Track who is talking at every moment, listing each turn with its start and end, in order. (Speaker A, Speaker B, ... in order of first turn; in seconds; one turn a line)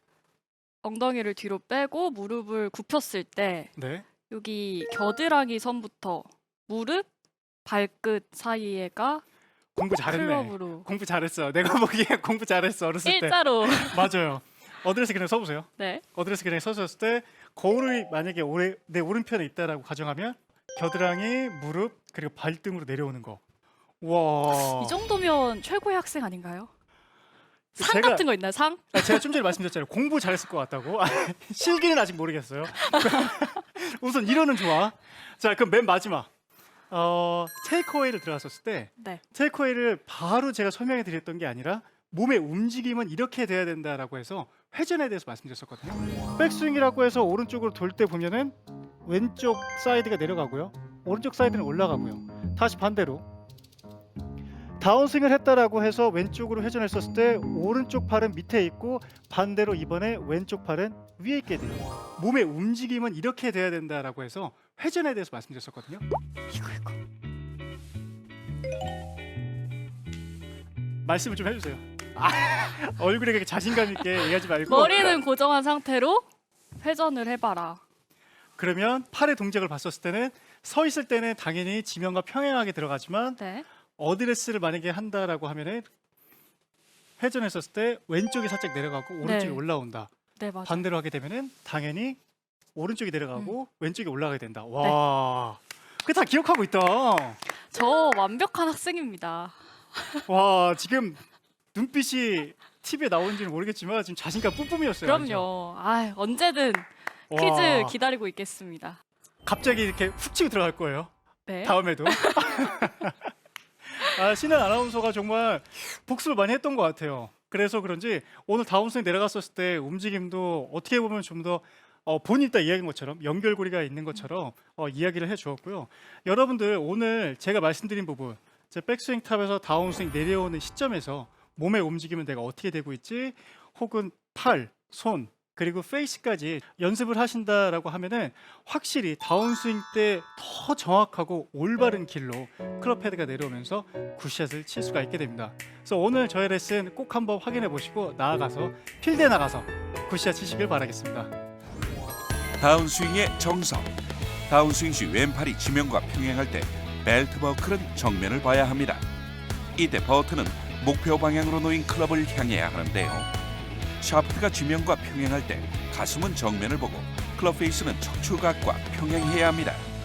Speaker A: 0.8-7.0
Speaker B: 3.8-4.0
Speaker A: 7.7-9.2
Speaker B: 9.8-23.4
Speaker A: 10.1-10.9
Speaker A: 13.0-14.1
Speaker A: 15.8-16.0
Speaker B: 24.0-24.9
Speaker A: 24.5-26.7
Speaker B: 27.8-28.2
Speaker A: 27.8-29.2
Speaker B: 28.9-36.3
Speaker A: 32.9-33.4
Speaker B: 36.9-53.3
Speaker B: 54.8-66.0
Speaker A: 66.5-67.0
Speaker B: 71.0-75.2
Speaker A: 74.6-76.2
Speaker A: 76.8-77.8
Speaker B: 78.6-83.4
Speaker A: 83.4-83.6
Speaker B: 84.0-85.9
Speaker B: 87.2-90.1
Speaker A: 89.2-89.6
Speaker A: 90.4-90.8
Speaker B: 90.6-92.2
Speaker B: 92.7-97.4
Speaker A: 97.7-100.2
Speaker B: 100.3-101.2
Speaker B: 101.7-105.5
Speaker A: 105.0-109.0
Speaker B: 107.3-107.9
Speaker B: 109.4-111.1
Speaker A: 111.5-112.9
Speaker B: 111.6-113.3
Speaker B: 113.9-151.3
Speaker C: 152.6-153.9
Speaker C: 154.5-159.0
Speaker C: 159.8-163.3
Speaker C: 164.0-169.8